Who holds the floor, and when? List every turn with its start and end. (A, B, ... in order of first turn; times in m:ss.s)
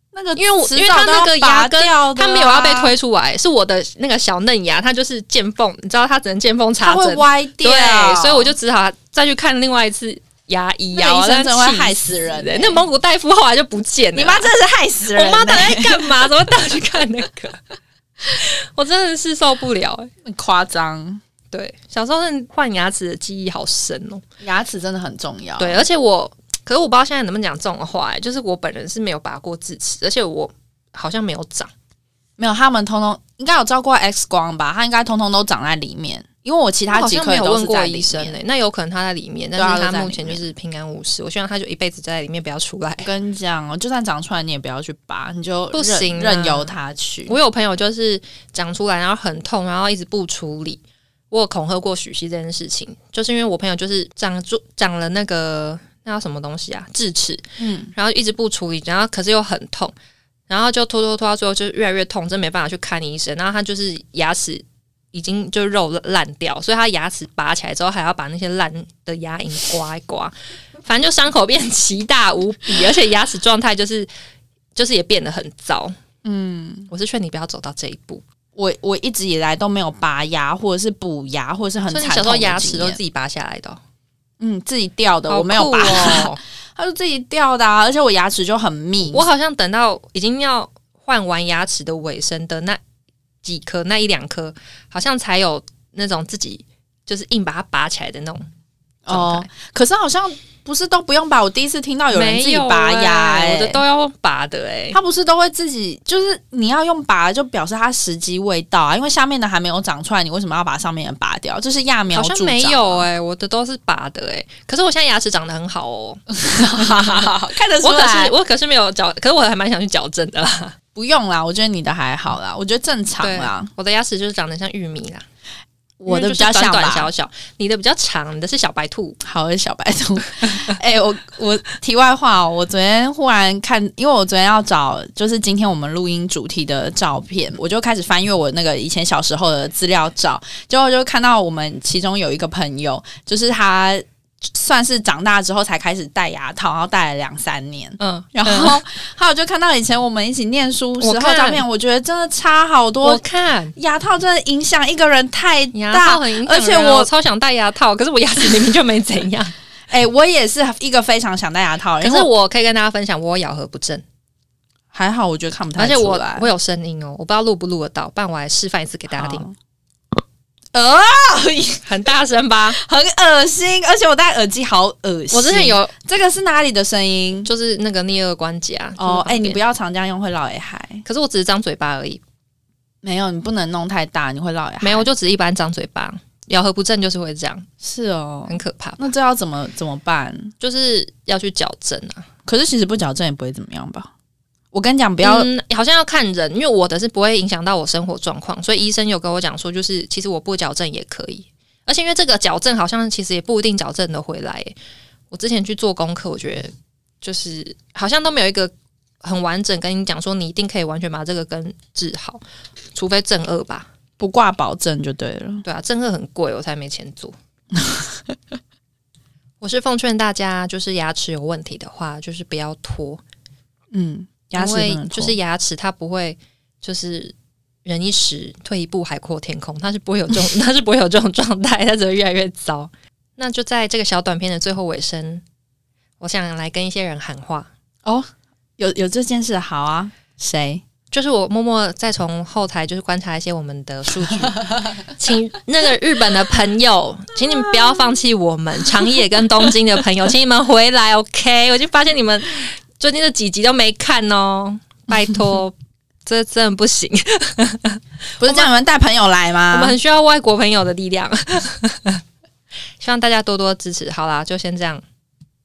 0:00.1-0:03.0 A
0:00.4-0:14.5 B
0:06.8-0:08.6 A
0:10.9-0:12.8 A
0:14.1-0:16.3 A
0:15.2-0:17.6 B
0:18.2-0:20.1 B
0:20.2-0:21.2 A
0:21.5-0:24.2 B
0:24.4-0:25.9 A
0:25.6-0:31.7 B
0:32.4-0:38.4 A
0:36.9-0:43.1 B
0:39.6-0:40.4 A
0:43.0-0:47.4 A
0:45.7-0:46.7 B
0:47.3-0:57.4 B
0:57.6-0:57.9 A
0:57.9-0:59.9 B
1:00.5-1:10.3 B
1:10.8-1:14.1 B
1:14.8-1:15.9 B
1:16.2-1:16.9 A
1:16.9-1:18.2 B
1:18.6-1:23.0 A
1:21.9-1:23.8 B
1:24.4-1:29.3 A
1:25.3-1:26.4 B
1:29.1-1:32.8 B
1:33.4-1:38.4 B
1:39.1-1:43.8 A
1:39.1-1:39.5 B
1:42.1-1:45.0 B
1:44.9-1:53.1 A
1:52.1-1:56.2 B
1:56.3-1:58.4 A
1:56.8-2:00.8 B
2:01.0-2:03.7 A
2:03.2-2:05.2 B
2:06.0-2:07.1 A
2:06.1-2:09.2 B
2:09.2-2:33.2 A
2:28.0-2:28.8 B
2:31.0-2:31.6 B
2:33.0-2:33.7 B
2:33.8-2:37.1 A
2:35.7-2:39.5 B
2:39.9-2:42.3 A
2:42.0-2:44.0 B
2:44.9-2:46.5 A
2:45.8-2:49.5 B
2:49.1-2:49.5 A
2:50.7-2:51.9 A
2:51.8-2:52.8 B
2:52.7-2:57.5 A
2:55.3-2:55.9 B
2:57.4-2:59.6 B
2:59.0-3:01.0 A
3:01.0-3:02.2 B
3:03.0-3:05.1 A
3:04.8-3:07.7 B
3:07.8-3:10.5 A
3:08.5-3:09.1 B
3:10.6-3:12.3 B
3:12.5-3:14.1 A
3:14.7-3:15.5 A
3:15.2-3:24.8 B
3:25.3-3:32.4 B
3:33.0-3:33.9 B
3:34.2-3:35.6 A
3:35.6-3:37.4 B
3:37.7-3:38.4 A
3:39.6-3:43.2 B
3:43.9-3:45.4 A
3:44.6-3:47.3 B
3:47.8-3:55.4 B
3:56.2-3:57.7 B
3:58.0-4:00.8 A
4:01.1-4:15.7 B
4:16.2-4:18.7 B
4:18.4-4:20.0 A
4:19.7-4:22.2 B
4:23.0-4:25.0 B